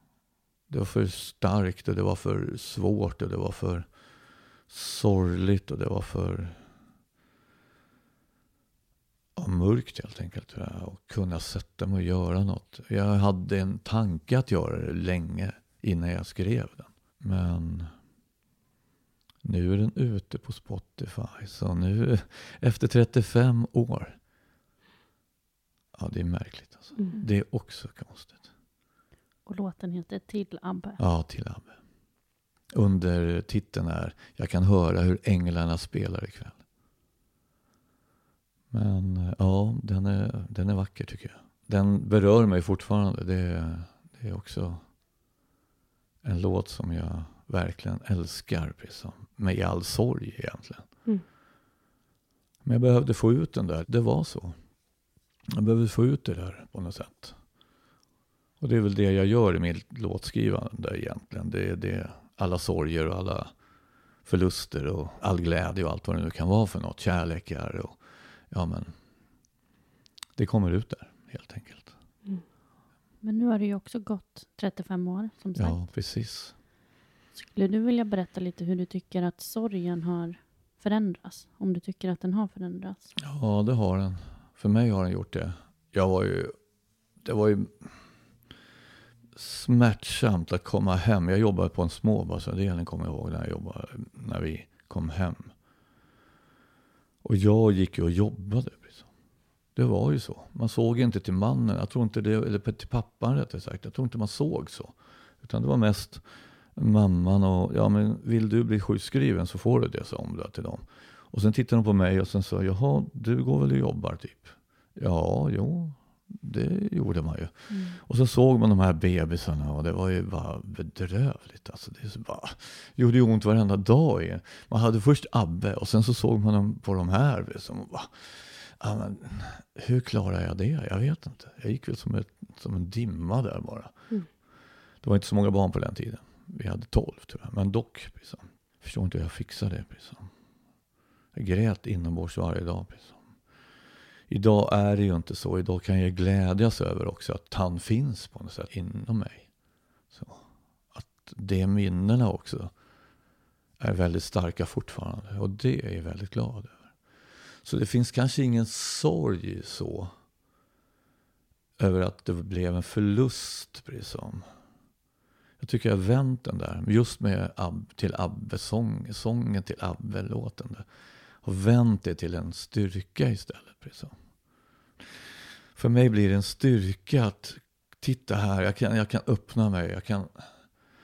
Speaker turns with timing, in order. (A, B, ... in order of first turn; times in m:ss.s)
0:00.7-0:03.9 A
0:04.7-0:06.6 A
0:09.4-0:17.9 A
0:19.4-0:24.2 A
0:25.9-0:28.5 A
0:29.5-0:31.0 B
0:31.0-0:31.8 A
0:32.7-0:36.6 A
0:38.7-0:44.8 A
0:46.2-0:50.9 A
0:52.6-0:54.6 A
0:55.5-0:57.4 A
0:58.6-1:03.5 A
1:04.2-1:08.0 A
1:08.5-1:08.9 A
1:10.4-1:11.9 A
1:13.2-1:15.8 B
1:15.6-1:16.6 A
1:17.4-1:23.1 B
1:23.2-1:26.6 A
1:27.2-1:27.9 A
1:29.4-1:35.5 A
1:37.2-1:39.1 A
1:39.8-1:46.2 A
1:46.8-2:14.1 A
1:57.7-1:58.0 B
2:15.0-2:20.3 A
2:21.3-2:23.2 A
2:24.3-2:29.5 A
2:30.1-2:32.7 A
2:33.8-2:36.9 A
2:37.6-2:40.1 A
2:41.8-2:44.5 A
2:45.6-2:50.9 A
2:51.4-2:54.2 A
2:55.8-3:00.5 A